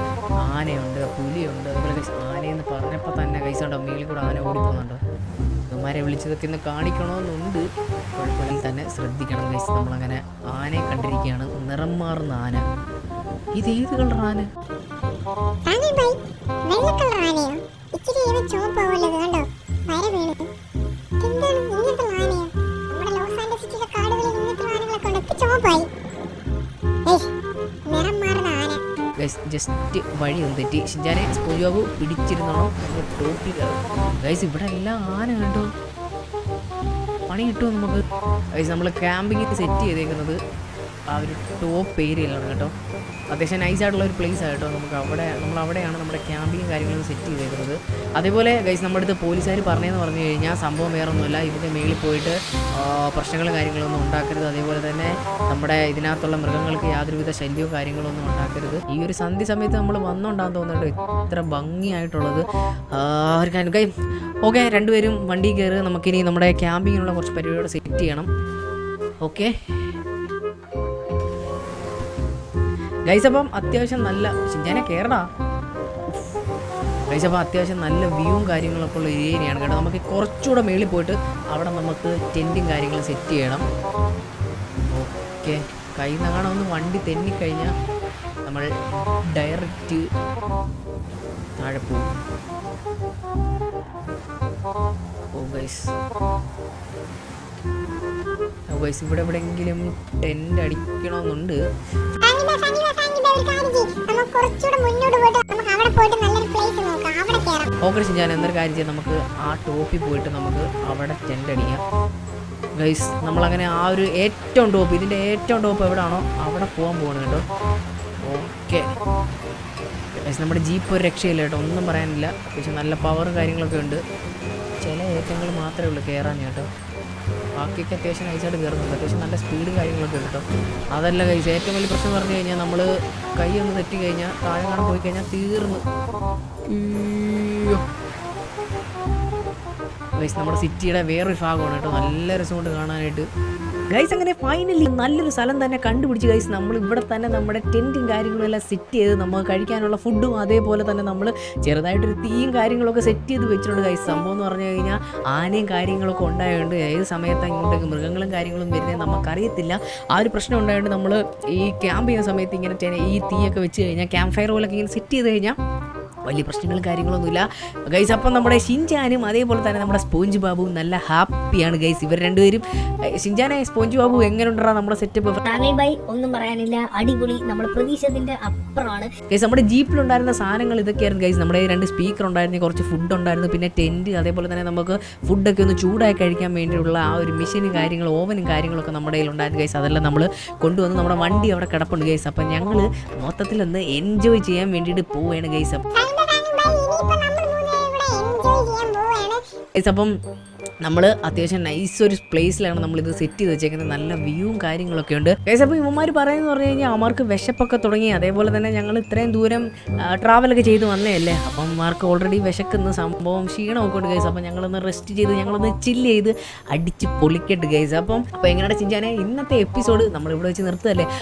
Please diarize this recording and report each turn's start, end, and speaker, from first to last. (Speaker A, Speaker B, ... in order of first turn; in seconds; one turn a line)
Speaker A: 0.4-5.0
Speaker A: 5.7-7.6
Speaker A: 8.2-12.6
Speaker A: 13.6-14.5
Speaker B: 15.7-20.5
Speaker B: 21.2-25.9
Speaker B: 27.9-28.8
Speaker A: 29.2-35.7
Speaker A: 37.3-38.0
Speaker A: 38.6-40.4
Speaker A: 41.1-42.7
Speaker A: 43.3-63.9
Speaker A: 64.4-68.3
Speaker A: 69.2-69.5
Speaker A: 73.1-75.3
Speaker A: 77.1-83.6
Speaker A: 84.9-87.7
Speaker A: 89.3-90.0
Speaker A: 91.6-92.1
Speaker A: 95.4-95.9
Speaker A: 98.7-101.6
Speaker B: 102.2-107.7
Speaker A: 107.8-111.8
Speaker A: 112.8-117.4
Speaker A: 118.2-118.9
Speaker A: 120.2-124.0
Speaker A: 124.8-126.7
Speaker A: 127.6-132.9
Speaker A: 133.4-135.8
Speaker A: 136.7-137.8
Speaker A: 140.2-143.3
Speaker A: 143.9-165.6
Speaker A: 166.3-172.6
Speaker A: 173.1-175.4
Speaker C: 175.4-179.1
Speaker A: 179.3-195.8
Speaker B: 196.0-199.4
Speaker A: 199.8-200.1
Speaker A: 200.8-221.1